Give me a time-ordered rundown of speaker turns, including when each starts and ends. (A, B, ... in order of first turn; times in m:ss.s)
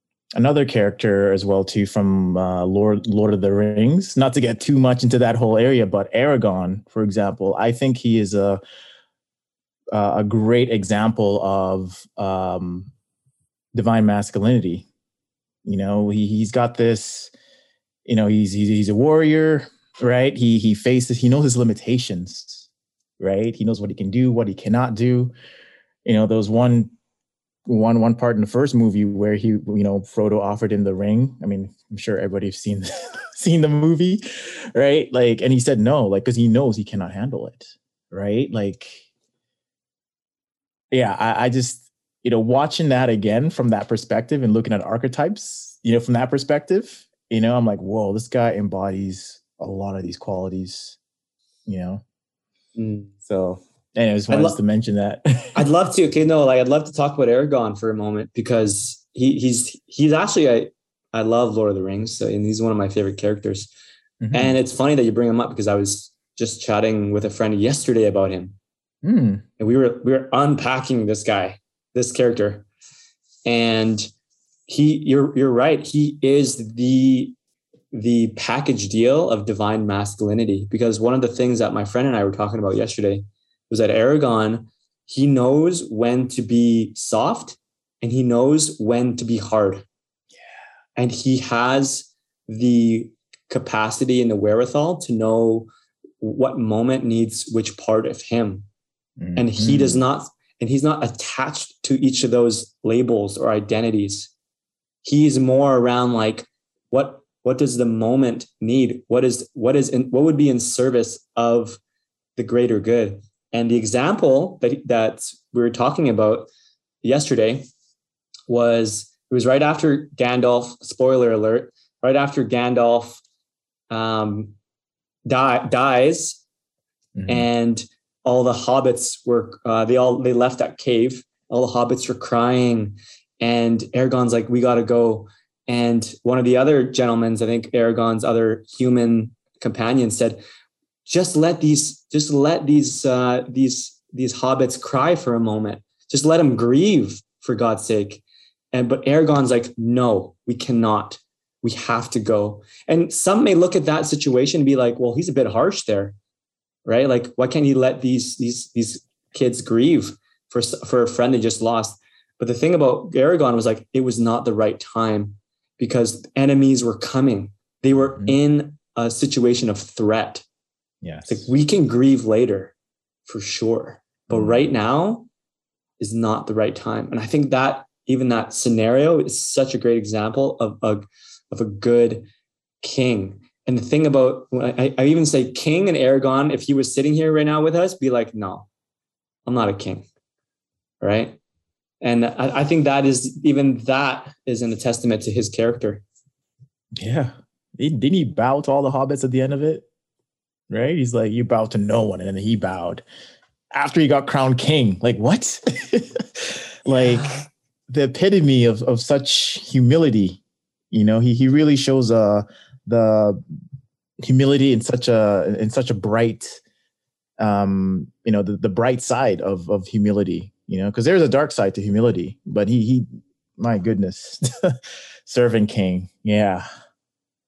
0:00.4-0:08.6 A
0:09.9-0:12.9 A
0:13.7-0:14.9 A
0:15.6-0:17.3 A
0:18.1-0:22.7 A
0:23.2-0:25.3 A
0:26.0-0:26.9 A
0:27.7-0:39.1 A
0:40.9-0:51.0 A
0:51.7-0:52.0 A
0:52.8-0:53.1 B
0:53.3-0:55.7 A
0:54.3-0:54.6 B
0:55.6-1:03.7 B
1:04.2-1:04.6 A
1:04.3-1:08.6 B
1:09.0-1:09.4 A
1:09.6-1:12.7 B
1:13.5-1:14.1 B
1:14.7-1:17.4 B
1:17.9-1:29.8 B
1:31.0-1:35.7 B
1:36.2-1:38.7 B
1:39.2-1:40.0 A
1:39.4-1:44.3 B
1:45.0-1:51.8 B
1:52.4-1:56.5 B
1:57.0-1:57.7 B
1:58.5-2:03.2 B
2:03.9-2:04.5 B
2:05.3-2:06.4 B
2:07.2-2:07.5 A
2:07.3-2:20.4 B
2:21.1-2:36.2 B
2:36.8-2:50.4 B
2:51.0-2:51.5 A
2:51.3-2:52.7 B
2:53.3-2:55.3 B
2:54.3-2:54.6 A
2:56.0-3:02.3 B
3:02.8-3:08.7 B
3:09.5-3:10.1 B
3:11.0-3:11.4 B
3:12.0-3:16.0 B
3:17.0-3:19.9 A
3:20.7-3:23.0 A
3:23.7-3:33.4 A
3:34.2-3:36.6 A
3:37.4-3:46.6 A